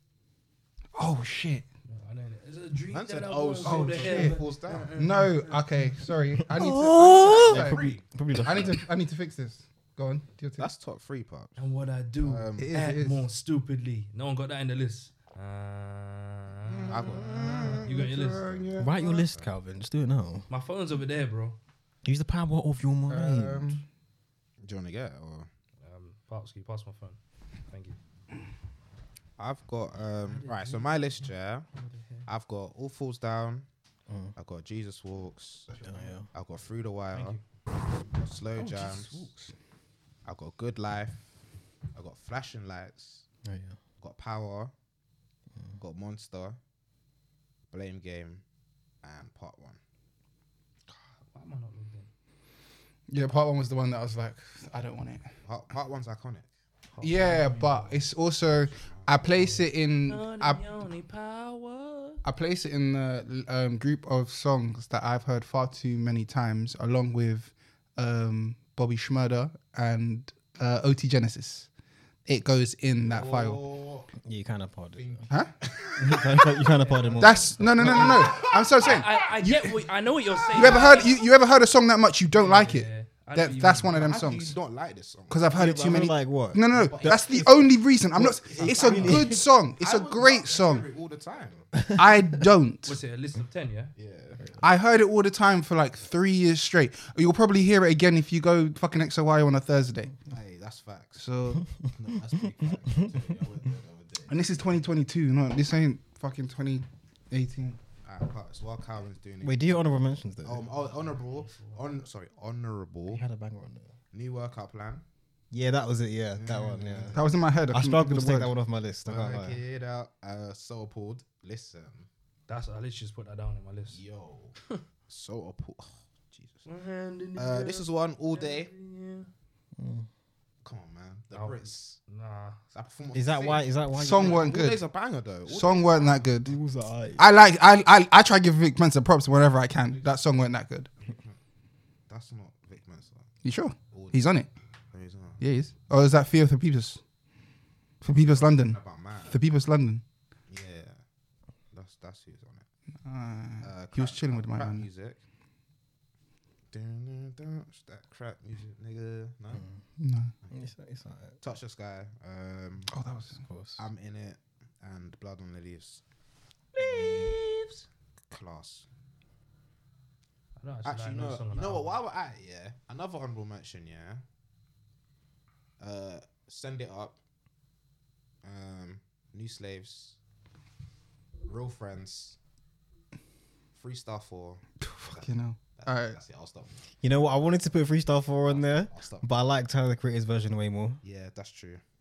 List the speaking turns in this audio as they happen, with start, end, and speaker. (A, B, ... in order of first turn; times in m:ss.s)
0:00.9-0:01.6 A
0:01.9-0:06.0 B
0:02.9-0:04.9 C
0:03.6-0:10.7 A
0:06.5-0:08.0 B
0:07.3-0:08.8 D
0:10.6-0:11.6 C
0:11.6-0:18.5 B
0:12.2-0:12.7 C
0:12.6-0:13.2 A
0:16.7-0:19.3 A
0:16.9-0:19.5 C
0:18.8-0:20.5 D
0:20.5-0:21.6 B
0:22.0-0:23.8 D
0:23.1-0:23.8 A
0:24.6-0:25.5 C
0:25.8-0:28.0 B
0:29.4-0:31.7 C
0:30.2-0:32.3 B
0:32.2-0:33.7 C
0:34.1-0:34.3 D
0:34.4-0:35.7 C
0:35.8-0:36.3 D
0:36.3-0:37.4 C
0:37.1-0:37.4 B
0:38.0-0:39.3 C
0:38.5-0:39.5 A
0:40.2-0:41.3 C
0:41.9-0:43.2 C
0:43.4-0:43.8 D
0:44.0-0:44.7 C
0:45.8-0:46.6 C
0:47.7-0:48.4 C
0:49.0-0:49.8 C
0:50.9-0:52.1 B
0:53.1-0:55.3 A
0:55.4-0:56.5 C
0:56.9-0:58.1 B
0:57.0-1:00.6 A
0:58.4-0:59.3 C
0:59.3-1:02.2 B
1:02.2-1:11.7 A
1:12.2-1:13.6 A
1:13.0-1:14.1 C
1:14.2-1:15.2 D
1:14.9-1:19.6 C
1:16.0-1:18.4 D
1:16.8-1:17.3 B
1:17.2-1:19.7 A
1:18.8-1:21.1 B
1:20.3-1:21.1 C
1:20.5-1:24.6 A
1:22.4-1:24.2 B
1:23.9-1:25.6 C
1:25.3-1:30.8 A
1:25.5-1:27.4 D
1:26.7-1:31.8 C
1:28.1-1:29.4 D
1:31.9-1:33.0 A
1:32.8-1:33.9 B
1:34.0-1:34.5 C
1:34.6-1:40.2 A
1:40.3-1:41.2 C
1:41.2-1:41.7 A
1:41.8-1:44.6 C
1:44.3-1:47.8 A
1:48.0-1:53.2 C
1:49.4-1:50.6 D
1:50.6-1:52.0 B
1:53.1-1:53.9 D
1:54.1-1:55.0 C
1:55.5-1:59.6 D
1:56.3-1:57.2 C
1:57.1-1:58.5 A
1:59.0-2:02.1 C
2:02.5-2:04.0 B
2:03.9-2:04.6 C
2:05.1-2:06.7 C
2:06.7-2:09.3 B
2:07.3-2:08.7 C
2:09.8-2:10.1 D
2:10.6-2:12.0 C
2:11.3-2:12.6 B
2:12.7-2:16.3 C
2:13.1-2:14.5 D
2:13.9-2:14.8 A
2:15.4-2:16.5 A
2:16.4-2:17.2 D
2:17.2-2:20.9 A
2:21.0-2:21.4 C
2:22.1-2:23.3 C
2:23.4-2:24.5 A
2:23.9-2:24.2 C
2:24.9-2:25.4 C
2:25.4-2:27.0 A
2:28.0-2:30.0 A
2:28.3-2:29.4 C
2:30.5-2:31.0 C
2:31.7-2:32.7 C
2:33.0-2:34.9 A
2:33.6-2:35.2 C
2:36.7-2:39.6 C
2:39.5-2:39.8 D
2:40.0-2:40.3 A
2:40.5-2:41.4 D
2:41.4-2:42.9 C
2:42.9-2:43.4 A
2:43.3-2:43.8 D
2:43.8-2:46.0 C
2:46.7-2:47.8 B
2:46.8-2:47.3 C
2:48.3-2:48.9 C
2:50.6-2:52.0 B
2:50.8-2:54.2 C
2:55.8-2:57.2 C
2:58.4-3:00.2 C
3:01.4-3:02.4 C
3:03.7-3:06.8 C
3:04.8-3:06.2 A
3:07.0-3:11.0 D
3:08.5-3:09.2 C
3:11.0-3:11.8 C